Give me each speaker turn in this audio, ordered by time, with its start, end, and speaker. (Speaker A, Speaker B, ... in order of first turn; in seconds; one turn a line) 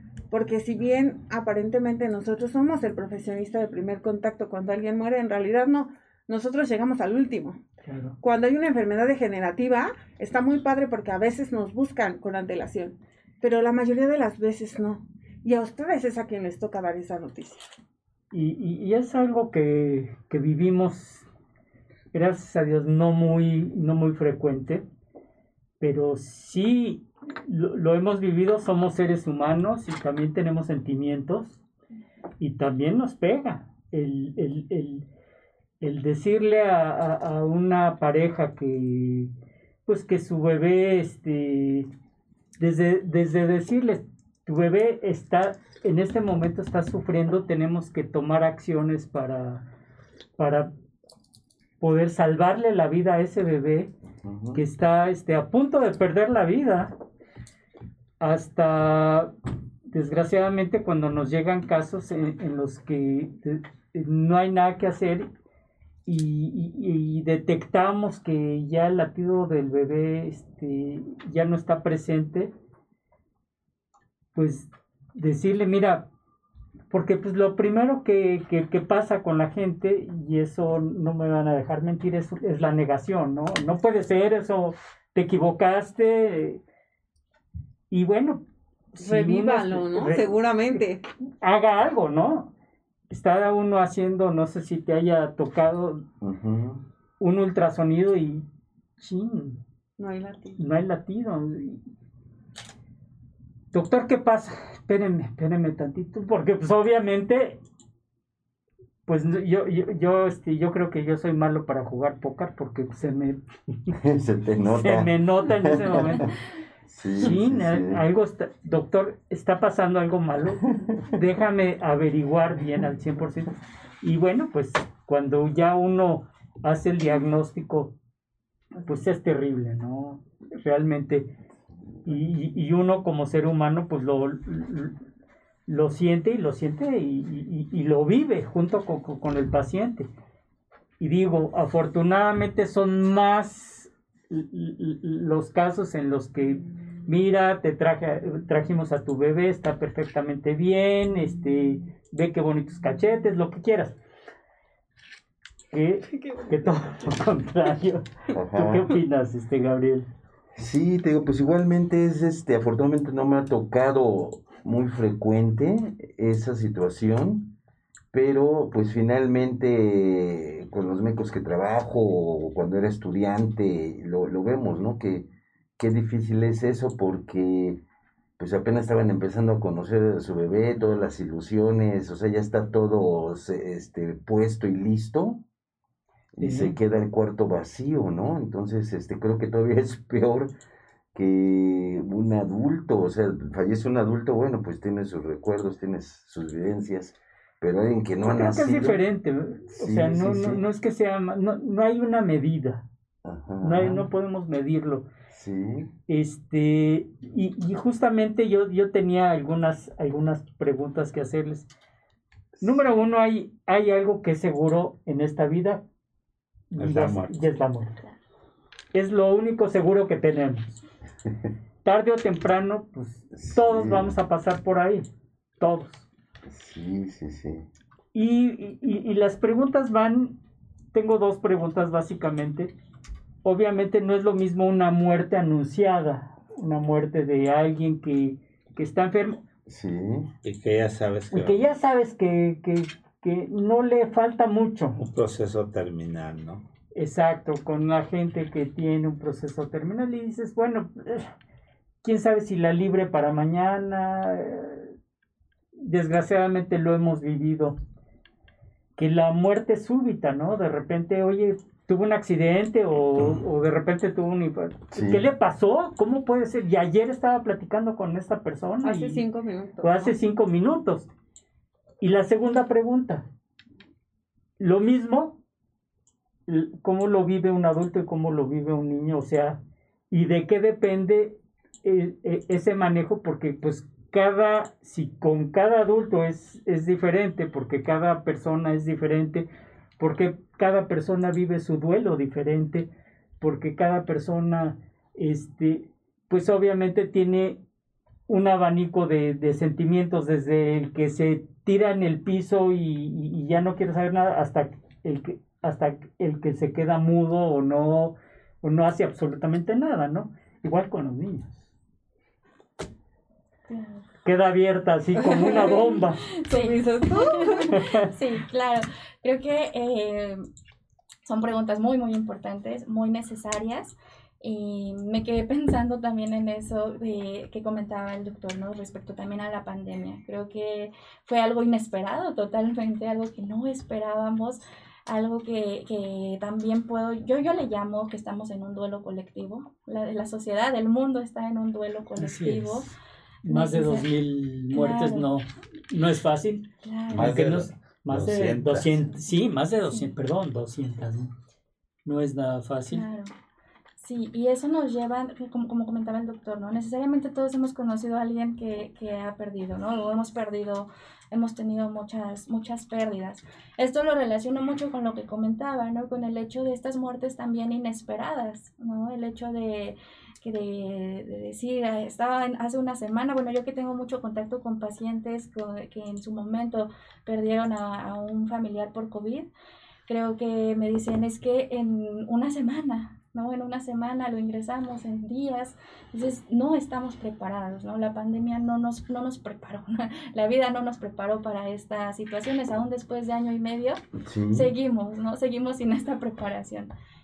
Speaker A: 0.3-7.6
Speaker B: 7.8-8.2
Speaker A: 8.2-17.6
Speaker B: 18.3-21.3
Speaker B: 22.1-24.9
Speaker B: 25.8-31.6
Speaker B: 32.4-35.0
Speaker B: 35.8-39.3
Speaker B: 39.9-41.9
Speaker B: 42.6-49.6
Speaker B: 50.4-50.7
Speaker B: 51.8-53.9
Speaker C: 54.2-54.6
Speaker B: 54.5-56.9
Speaker B: 58.2-59.3
Speaker B: 59.9-65.3
Speaker B: 66.1-72.5
Speaker B: 74.3-76.1
Speaker B: 76.9-86.6
Speaker B: 87.9-88.4
Speaker B: 88.9-90.8
Speaker A: 89.0-91.0
Speaker B: 91.4-92.5
Speaker B: 93.1-96.0
Speaker C: 96.2-96.8
Speaker B: 97.2-98.5
Speaker B: 99.0-99.6
Speaker A: 100.0-100.6
Speaker B: 100.6-101.8
Speaker B: 103.7-107.6
Speaker B: 109.1-114.0
Speaker C: 114.0-116.3
Speaker B: 114.7-116.3
Speaker C: 116.9-118.0
Speaker B: 117.2-128.0
Speaker B: 128.8-131.3
Speaker B: 132.1-134.9
Speaker B: 135.7-140.1
Speaker B: 141.0-154.0
Speaker B: 155.7-160.1
Speaker A: 156.1-157.2
Speaker C: 158.3-158.9
Speaker C: 160.6-167.5
Speaker C: 168.1-177.8
Speaker C: 178.4-185.4
Speaker C: 186.3-190.5
Speaker B: 186.4-186.8
Speaker C: 191.1-199.0
Speaker B: 198.2-202.9
Speaker C: 199.7-200.6
Speaker C: 203.2-204.1
Speaker B: 203.6-205.1
Speaker C: 205.3-205.9
Speaker B: 206.1-211.7
Speaker B: 212.6-215.8
Speaker B: 216.7-218.0
Speaker D: 216.8-217.6
Speaker B: 218.9-220.8
Speaker B: 221.8-225.1
Speaker C: 223.3-224.2
Speaker B: 225.6-226.1
Speaker C: 226.5-227.7
Speaker B: 228.1-230.4
Speaker B: 230.9-232.7
Speaker B: 233.4-239.4
Speaker C: 239.7-240.3
Speaker D: 240.4-241.6
Speaker B: 241.3-245.0
Speaker D: 245.0-246.6
Speaker B: 246.9-251.3
Speaker B: 252.0-254.9
Speaker B: 255.8-257.8
Speaker B: 259.0-269.2
Speaker C: 264.9-265.2
Speaker A: 268.8-270.1
Speaker B: 269.8-271.1
Speaker B: 272.0-273.3
Speaker B: 274.6-275.4
Speaker B: 276.5-279.6
Speaker B: 280.1-289.5
Speaker B: 290.0-292.9
Speaker B: 293.4-297.6
Speaker B: 298.3-311.5
Speaker E: 313.7-314.1
Speaker B: 314.2-316.2
Speaker A: 315.1-317.8
Speaker E: 315.7-320.4
Speaker B: 317.7-318.1
Speaker E: 321.2-344.1
Speaker B: 342.2-351.3
Speaker E: 344.7-345.3
Speaker E: 346.8-347.3
Speaker D: 347.1-349.1
Speaker B: 352.1-353.0
Speaker E: 352.9-353.3
Speaker E: 354.0-379.5
Speaker E: 380.1-394.0
Speaker C: 394.2-394.7
Speaker E: 394.5-396.9